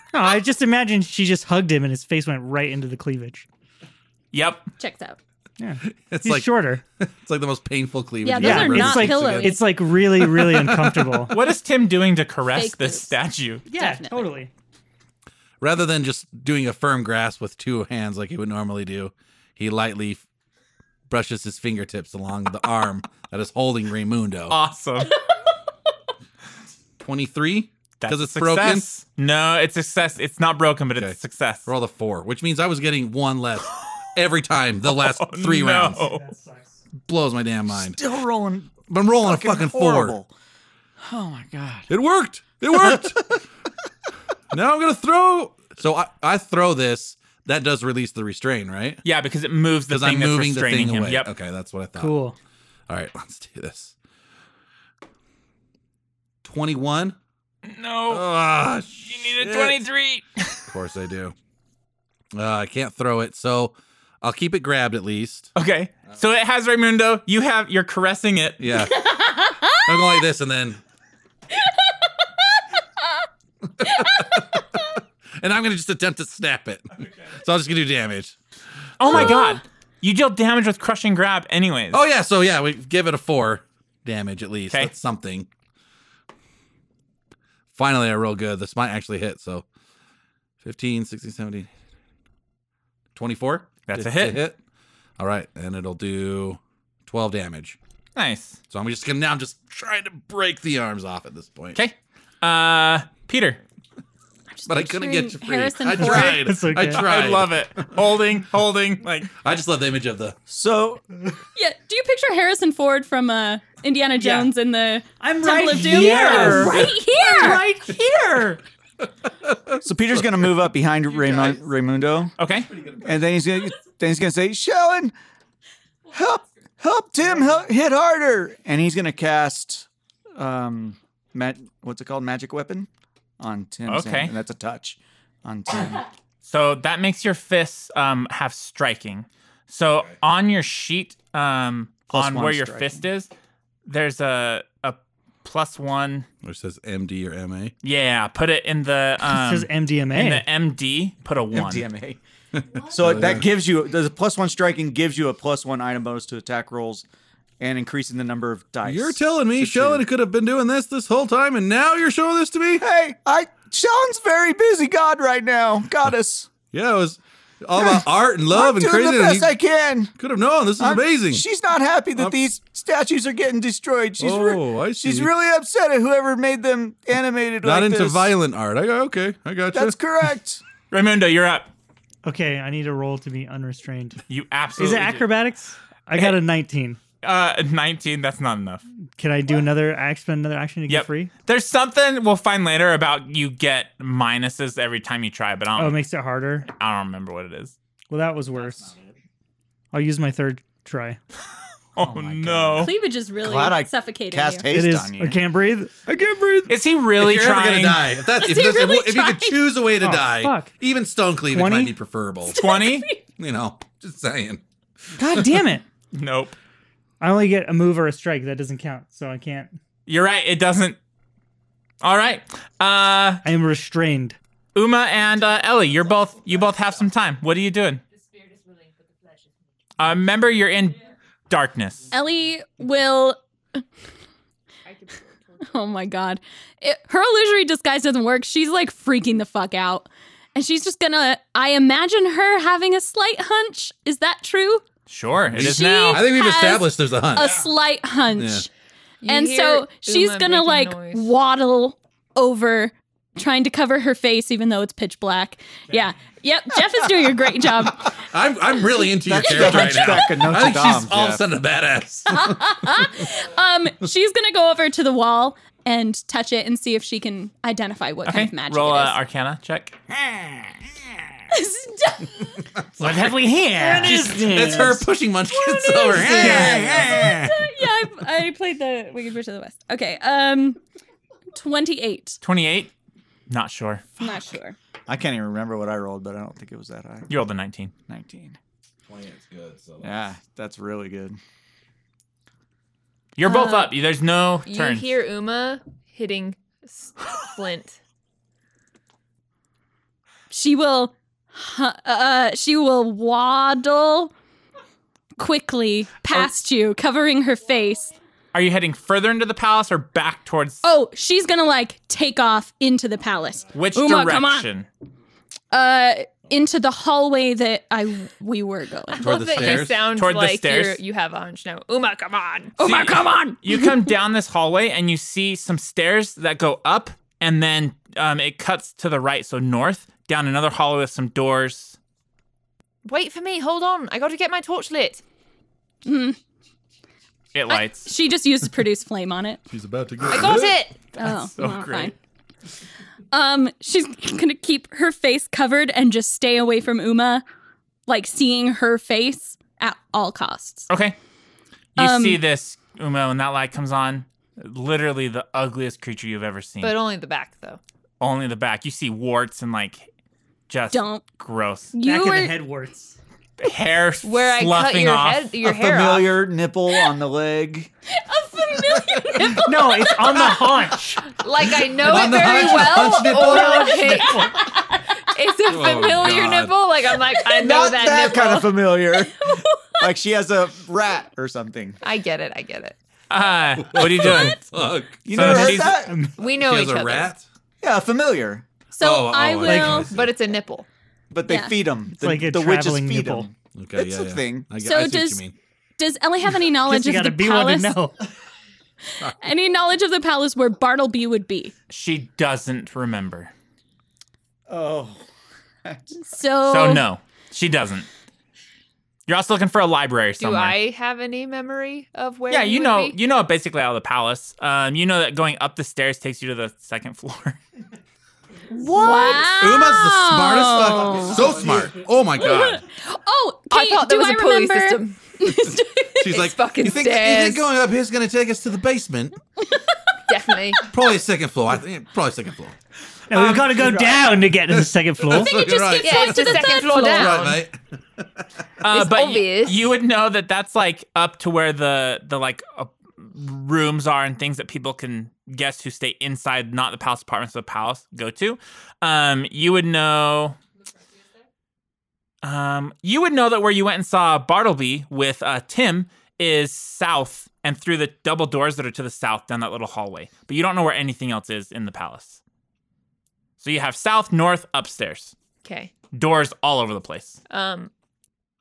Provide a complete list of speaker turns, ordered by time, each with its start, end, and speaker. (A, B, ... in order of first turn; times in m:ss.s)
0:00.1-0:03.4 A
0:04.3-0:04.7 B
0:04.8-0:05.2 C
0:05.6-0:06.8 A
0:05.8-0:11.4 D
0:08.2-0:09.7 C
0:08.4-0:11.3 A
0:11.3-0:13.6 B
0:12.5-0:13.2 C
0:13.7-0:14.5 A
0:13.7-0:14.4 C
0:15.6-0:20.2 D
0:21.1-0:24.6 D
0:24.5-0:25.2 B
0:27.0-0:28.9 D
0:28.0-0:31.7 B
0:31.0-0:36.0 D
0:34.9-0:36.2 B
0:36.0-0:36.8 A
0:37.0-0:38.0 D
0:37.7-0:40.3 E
0:38.9-0:40.2 D
0:41.0-0:41.9 E
0:41.9-0:43.3 D
0:42.7-0:43.4 E
0:44.5-0:49.0 D
0:49.0-0:51.3 B
0:49.9-0:52.2 D
0:52.0-0:52.4 A
0:52.9-0:53.9 D
0:56.4-0:57.2 D
0:57.6-0:58.2 B
0:58.1-0:59.8 D
0:59.0-1:00.6 B
1:00.7-1:01.3 D
1:02.3-1:05.5 D
1:05.6-1:08.6 B
1:08.6-1:09.1 D
1:08.9-1:10.2 C
1:09.7-1:10.8 D
1:13.8-1:18.4 D
1:19.0-1:22.0 B
1:19.0-1:19.4 D
1:19.1-1:19.6 C
1:21.9-1:25.5 D
1:27.7-1:29.6 D
1:30.6-1:31.7 D
1:33.1-1:34.6 D
1:33.9-1:34.4 B
1:35.2-1:37.8 D
1:38.2-1:38.6 B
1:38.7-1:41.8 D
1:41.7-1:43.6 B
1:44.5-1:46.5 C
1:44.6-1:47.7 D
1:46.0-1:47.0 A
1:46.6-1:49.3 B
1:49.3-1:50.4 D
1:50.5-1:51.0 E
1:51.6-1:57.6 C
1:54.2-1:54.5 A
1:55.2-1:58.6 A
1:55.9-1:56.8 B
1:59.4-1:59.8 D
1:59.8-2:02.3 E
2:02.4-2:02.7 B
2:03.0-2:05.1 E
2:06.1-2:12.9 E
2:13.4-2:16.0 E
2:13.9-2:14.3 B
2:16.4-2:23.3 B
2:22.1-2:23.0 E
2:23.9-2:26.3 B
2:26.4-2:27.7 D
2:27.8-2:31.9 B
2:29.3-2:30.4 A
2:31.5-2:32.2 E
2:32.6-2:33.4 D
2:32.9-2:37.0 E
2:37.6-2:40.0 E
2:38.8-2:42.8 D
2:42.8-2:46.5 E
2:46.7-2:49.5 D
2:47.8-2:50.1 E
2:50.2-2:51.4 D
2:50.8-2:58.3 E
2:54.2-2:55.3 D
2:57.6-3:00.0 D
2:59.7-3:00.6 E
3:00.9-3:01.7 B
3:02.2-3:04.2 A
3:04.3-3:05.3 B
3:04.8-3:07.0 A
3:07.2-3:08.8 B
3:09.2-3:11.3 A
3:10.9-3:16.0 B
3:15.8-3:16.7 A
3:16.7-3:17.7 B
3:18.1-3:18.9 A
3:19.9-3:21.2 A
3:21.9-3:22.9 B
3:22.0-3:25.4 E
3:22.8-3:24.7 C
3:24.7-3:26.3 A
3:26.7-3:28.1 B
3:27.1-3:32.6 D
3:28.2-3:29.6 C
3:30.0-3:30.7 A
3:31.5-3:32.0 A
3:32.4-3:33.2 C
3:32.5-3:33.1 B
3:33.4-3:34.6 D
3:35.2-3:35.8 A
3:35.2-3:35.6 D
3:36.1-3:36.6 B
3:37.2-3:39.8 A
3:40.1-3:41.0 B
3:42.0-3:43.4 B
3:43.4-3:44.4 A
3:44.7-3:48.0 B
3:48.4-3:48.9 F
3:50.0-3:52.1 B
3:52.1-3:53.8 C
3:54.9-3:55.6 F
3:55.6-4:04.9 C
4:05.1-4:06.3 B
4:05.5-4:07.7 D
4:05.6-4:08.7 C
4:08.3-4:08.7 D
4:09.2-4:11.3 F
4:09.2-4:18.2 C
4:18.1-4:22.9 D
4:19.1-4:21.4 E
4:19.5-4:20.0 C
4:22.3-4:29.2 C
4:28.2-4:30.0 B
4:31.5-4:32.7 C
4:33.0-4:33.3 D
4:33.0-4:35.1 A
4:33.8-4:37.7 D
4:33.8-4:34.1 C
4:35.4-4:40.8 C
4:36.4-4:36.9 A
4:36.5-4:37.0 E
4:41.6-4:42.4 C
4:42.4-4:42.9 B
4:43.5-4:44.1 B
4:44.2-4:44.8 C
4:45.1-4:47.4 E
4:47.3-4:47.9 B
4:48.1-4:48.6 E
4:49.1-4:50.2 D
4:50.0-4:51.4 E
4:53.4-4:55.1 B
4:53.4-4:53.9 C
4:54.6-4:58.0 F
5:00.5-5:04.3 C
5:05.4-5:08.1 C
5:08.5-5:10.8 B
5:10.8-5:14.7 C
5:13.7-5:14.9 B
5:15.7-5:19.4 C
5:19.1-5:22.8 F
5:19.2-5:20.0 D
5:19.6-5:21.0 B
5:22.8-5:24.1 C
5:22.8-5:32.0 B
5:33.0-5:35.2 F
5:36.0-5:36.4 C
5:37.5-5:38.1 B
5:37.7-5:39.6 C
5:39.7-5:40.8 D
5:40.2-5:41.1 F
5:41.1-5:42.1 C
5:41.2-5:42.1 B
5:43.3-5:47.4 C
5:48.1-5:50.9 C
5:50.9-5:51.2 B
5:52.0-5:56.9 B
5:52.0-5:52.4 C
5:56.8-5:57.8 F
5:58.2-6:00.1 B
6:00.7-6:01.9 B
6:00.9-6:01.3 C
6:01.9-6:02.6 C
6:02.0-6:03.2 A
6:03.6-6:05.5 B
6:04.2-6:06.4 F
6:05.6-6:07.9 E
6:08.1-6:10.4 C
6:09.4-6:11.2 A
6:11.3-6:14.8 F
6:11.8-6:14.1 D
6:12.4-6:14.8 C
6:15.3-6:18.8 F
6:15.7-6:16.8 D
6:17.5-6:22.0 E
6:19.4-6:20.1 C
6:22.0-6:23.0 F
6:23.3-6:24.6 B
6:23.8-6:25.6 D
6:25.2-6:26.3 E
6:25.3-6:26.0 B
6:25.4-6:26.4 A
6:26.4-6:27.3 F
6:26.4-6:27.4 D
6:27.8-6:28.7 E
6:28.9-6:30.1 C
6:29.0-6:30.3 D
6:29.6-6:30.1 A
6:30.1-6:30.9 F
6:31.3-6:34.7 E
6:31.4-6:31.8 C
6:32.1-6:33.5 A
6:33.8-6:35.6 D
6:34.8-6:35.4 C
6:36.0-6:38.0 C
6:36.8-6:38.2 A
6:39.2-6:41.7 C
6:41.9-6:43.5 B
6:44.7-6:45.2 E
6:46.1-6:47.1 C
6:46.6-6:48.1 B
6:49.3-6:50.8 B
6:50.4-6:53.2 F
6:52.5-6:57.6 B
6:58.7-7:01.6 C
6:58.9-6:59.4 F
6:59.4-7:02.8 D
7:01.4-7:01.9 E
7:02.4-7:06.5 C
7:03.7-7:05.4 F
7:06.2-7:09.4 D
7:06.2-7:07.7 F
7:09.7-7:10.0 C
7:10.3-7:10.9 F
7:10.9-7:12.7 D
7:13.3-7:15.6 A
7:13.3-7:14.1 B
7:14.7-7:18.4 D
7:15.3-7:17.5 C
7:16.0-7:17.6 F
7:18.8-7:30.6 B
7:18.9-7:19.8 F
7:32.4-7:42.4 B
7:43.6-7:45.3 B
7:45.6-7:45.9 F
7:46.1-7:47.4 B
7:47.5-7:47.9 F